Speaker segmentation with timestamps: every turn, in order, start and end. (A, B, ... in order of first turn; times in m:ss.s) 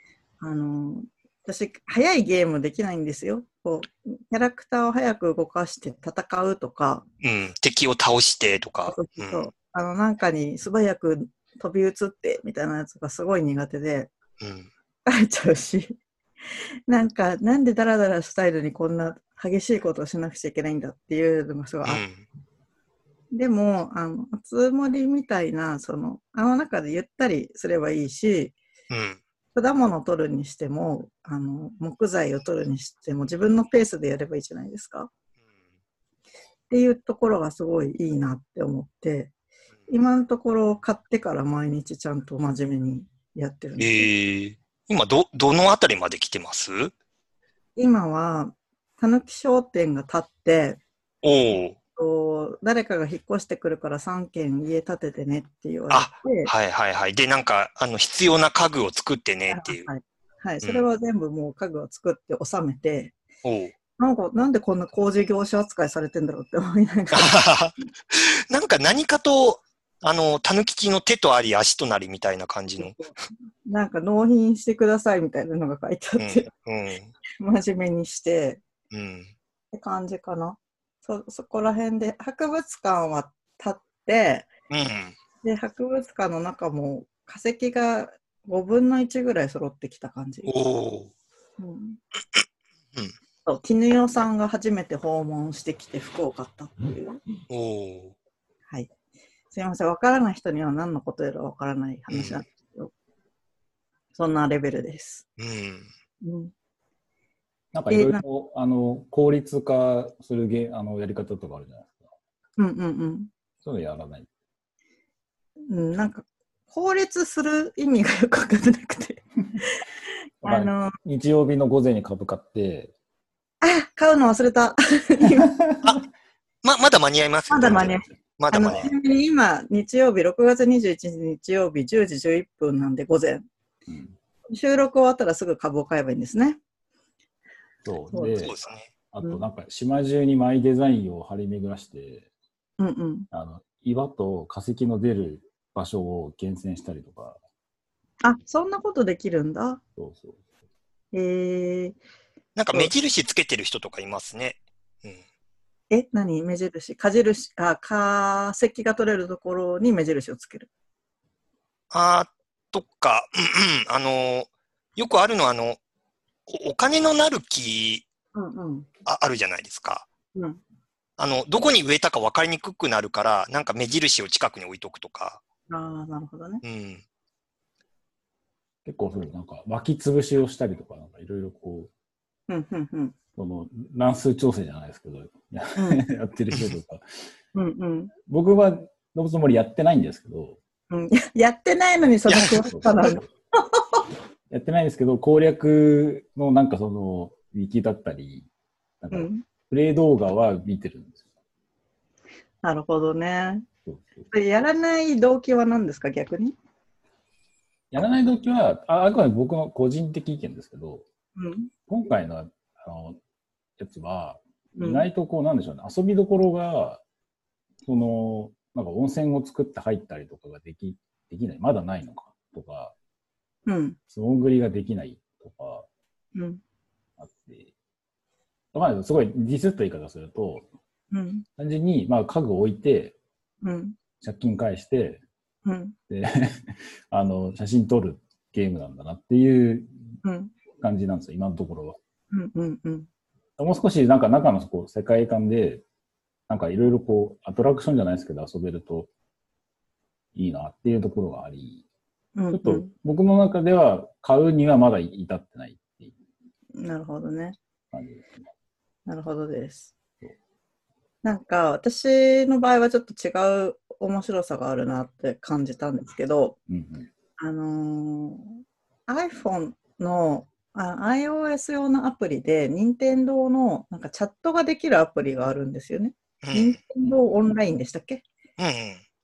0:00.4-0:07.0 A
0:07.2-0:09.5 B
0:08.9-0:14.1 A
0:14.4-0:14.7 B
0:15.1-0:16.0 A
0:16.9-0:22.0 A
0:21.8-0:22.2 B
0:23.3-0:28.6 A
0:28.9-0:29.2 B
0:29.6-0:35.1 A
0:36.7-0:39.3 A
0:39.9-0:44.1 A
0:43.8-0:46.9 B
0:47.8-0:50.8 A
0:51.2-0:51.8 B
0:52.0-0:56.5 A
0:55.9-0:59.9 B
0:59.5-1:03.2 A
1:03.4-1:03.7 B
1:04.0-1:07.4 A
1:07.1-1:13.0 B
1:12.8-1:16.5 A
1:16.2-1:17.1 B
1:17.4-1:18.6 A
1:18.9-1:19.3 B
1:19.7-1:24.5 A
1:24.7-1:25.2 B
1:25.4-1:30.5 A
1:30.4-1:31.1 B
1:31.6-1:32.0 A
1:33.5-1:37.2 A
1:37.5-1:38.2 B
1:39.5-1:42.9 A
1:42.1-1:42.4 B
1:44.1-1:45.2 A
1:45.4-1:45.9 B
1:46.2-1:46.5 A
1:47.7-1:52.1 C
1:47.9-1:48.2 A
1:52.6-1:53.3 A
1:53.6-1:54.3 C
1:55.7-1:59.8 A
2:00.4-2:02.9 C
2:00.4-2:01.0 A
2:03.6-2:05.5 A
2:06.6-2:08.9 B
2:07.5-2:13.5 A
2:08.6-2:08.9 C
2:13.9-2:14.1 C
2:14.5-2:16.6 A
2:17.8-2:18.6 C
2:18.1-2:18.4 A
2:18.4-2:18.9 B
2:19.1-2:22.3 C
2:22.8-2:23.3 A
2:23.3-2:27.4 C
2:28.2-2:29.8 A
2:30.0-2:30.4 C
2:31.1-2:32.0 A
2:32.6-2:35.2 B
2:35.9-2:40.7 A
2:41.9-2:45.8 B
2:46.5-2:48.0 B
2:48.4-2:48.9 A
2:49.0-2:50.1 B
2:50.4-2:50.6 A
2:51.2-2:55.4 B
2:55.7-2:56.6 A
2:56.6-2:57.0 B
2:58.9-3:01.9 C
3:02.5-3:03.2 A
3:03.4-3:07.1 C
3:05.8-3:06.0 A
3:07.5-3:08.1 A
3:08.3-3:10.6 C
3:10.9-3:13.8 A
3:12.3-3:12.6 B
3:12.6-3:13.2 C
3:14.5-3:18.5 C
3:19.0-3:21.2 C
3:19.1-3:19.4 A
3:22.6-3:23.7 A
3:23.9-3:24.3 C
3:24.3-3:26.6 A
3:27.9-3:31.0 C
3:31.4-3:31.7 A
3:31.9-3:33.2 C
3:33.8-3:37.0 C
3:34.8-3:35.1 A
3:37.8-3:42.9 C
3:43.7-3:44.0 A
3:44.1-3:45.9 C
3:46.4-3:46.6 A
3:47.2-3:47.7 C
3:48.7-3:50.7 C
3:51.1-3:51.5 A
3:51.6-3:53.2 C
3:53.6-3:54.0 A
3:54.2-3:55.2 C
3:55.6-3:56.0 A
3:56.1-3:59.9 C
4:00.2-4:00.5 A
4:00.8-4:02.0 C
4:02.3-4:03.1 A
4:03.6-4:05.8 C
4:06.5-4:09.1 C
4:10.4-4:11.8 C
4:12.4-4:12.9 A
4:12.5-4:16.2 C
4:16.8-4:17.6 A
4:17.9-4:18.3 C
4:19.1-4:19.9 A
4:21.2-4:26.6 A
4:26.7-4:27.1 C
4:27.4-4:38.2 A
4:36.4-4:36.8 B
4:38.6-4:39.0 B